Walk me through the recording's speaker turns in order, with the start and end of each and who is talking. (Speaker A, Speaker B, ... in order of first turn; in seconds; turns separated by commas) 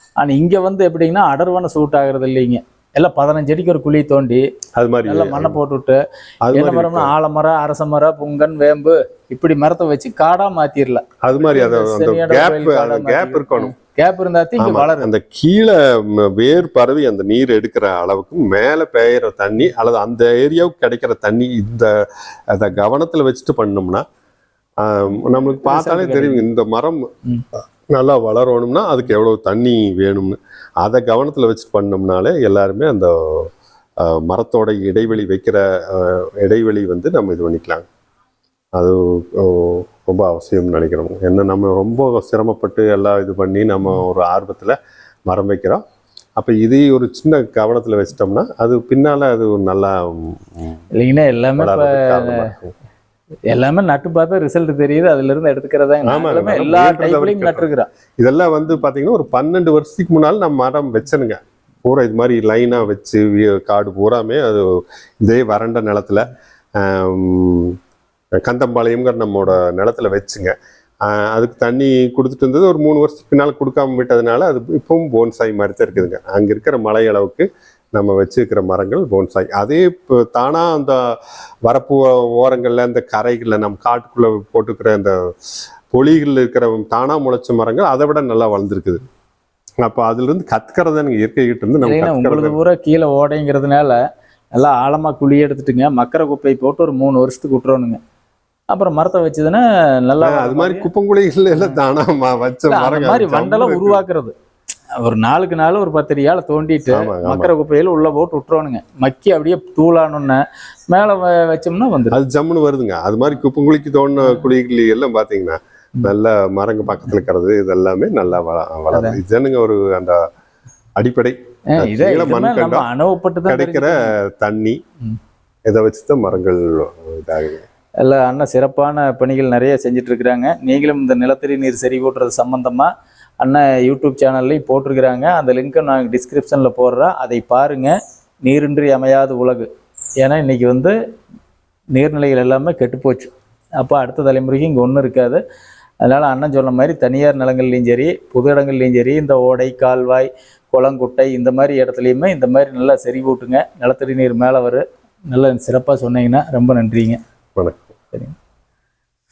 Speaker A: 0.2-4.4, Speaker B: 4.8-5.6, Speaker A: 5.0-6.0, Speaker B: 6.5-7.1, Speaker A: 6.5-15.1, Speaker B: 11.2-13.7, Speaker B: 14.6-24.0, Speaker B: 24.8-27.0, Speaker A: 25.6-26.5, Speaker B: 27.9-37.8, Speaker B: 38.8-45.8, Speaker B: 46.4-50.8, Speaker A: 50.9-52.5, Speaker B: 51.6-52.7, Speaker A: 53.5-57.9, Speaker B: 56.0-57.7, Speaker B: 58.2-67.8, Speaker B: 68.5-70.5, Speaker B: 71.0-85.2, Speaker B: 85.9-89.0, Speaker B: 89.8-92.6, Speaker A: 91.8-94.0, Speaker A: 94.5-98.0, Speaker A: 98.7-100.9, Speaker B: 100.2-104.0, Speaker A: 102.7-104.3, Speaker A: 105.0-112.2, Speaker B: 106.9-107.5, Speaker B: 112.1-120.2, Speaker A: 118.9-119.2, Speaker B: 121.0-122.9, Speaker A: 121.7-124.1, Speaker B: 123.5-124.8, Speaker B: 125.7-127.6, Speaker A: 128.0-139.7, Speaker A: 140.2-140.9, Speaker A: 141.9-145.4, Speaker A: 146.0-157.2, Speaker B: 157.6-157.9